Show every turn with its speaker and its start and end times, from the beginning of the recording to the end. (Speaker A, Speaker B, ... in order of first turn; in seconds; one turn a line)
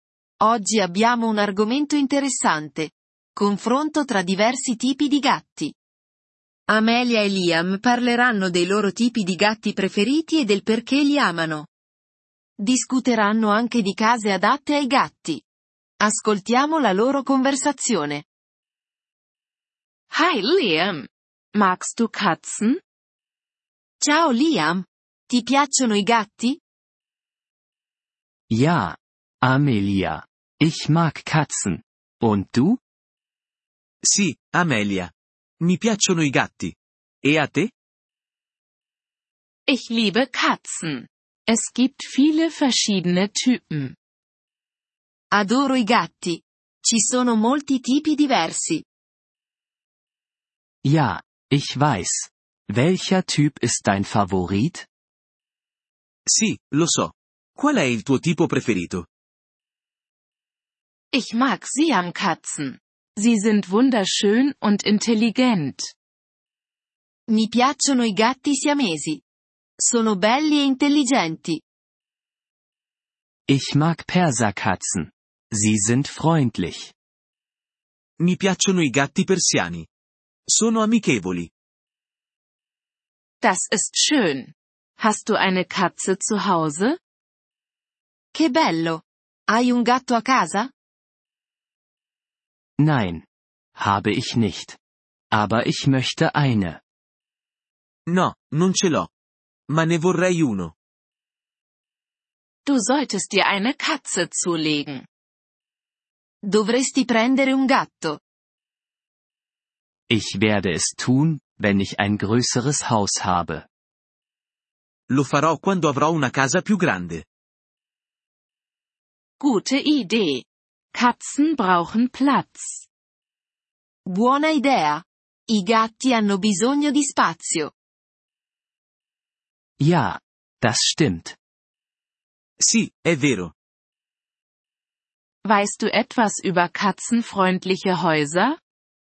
Speaker A: 0.4-5.7
Speaker A: 6.7-11.7
Speaker A: 12.6-15.4
Speaker A: 16.0-18.2
Speaker B: 20.1-22.8
Speaker A: 24.0-26.6
Speaker C: 28.5-32.8
Speaker D: 34.0-37.7
Speaker B: 39.7-43.9
Speaker A: 45.3-48.9
Speaker C: 50.8-54.9
Speaker D: 56.2-59.1
Speaker B: 61.1-65.9
Speaker A: 67.3-69.2
Speaker A: 69.8-71.6
Speaker C: 73.5-76.9
Speaker D: 78.2-79.9
Speaker D: 80.5-81.5
Speaker B: 83.4-87.0
Speaker A: 88.3-90.7
Speaker C: 92.8-94.8
Speaker C: 95.3-96.8
Speaker D: 98.1-99.1
Speaker D: 99.7-100.7
Speaker B: 102.6-105.0
Speaker A: 106.4-108.2
Speaker C: 110.1-113.7
Speaker D: 115.1-117.2
Speaker B: 119.4-122.8
Speaker A: 124.0-127.7
Speaker C: 129.8-131.3
Speaker D: 132.6-133.5
Speaker B: 135.4-138.6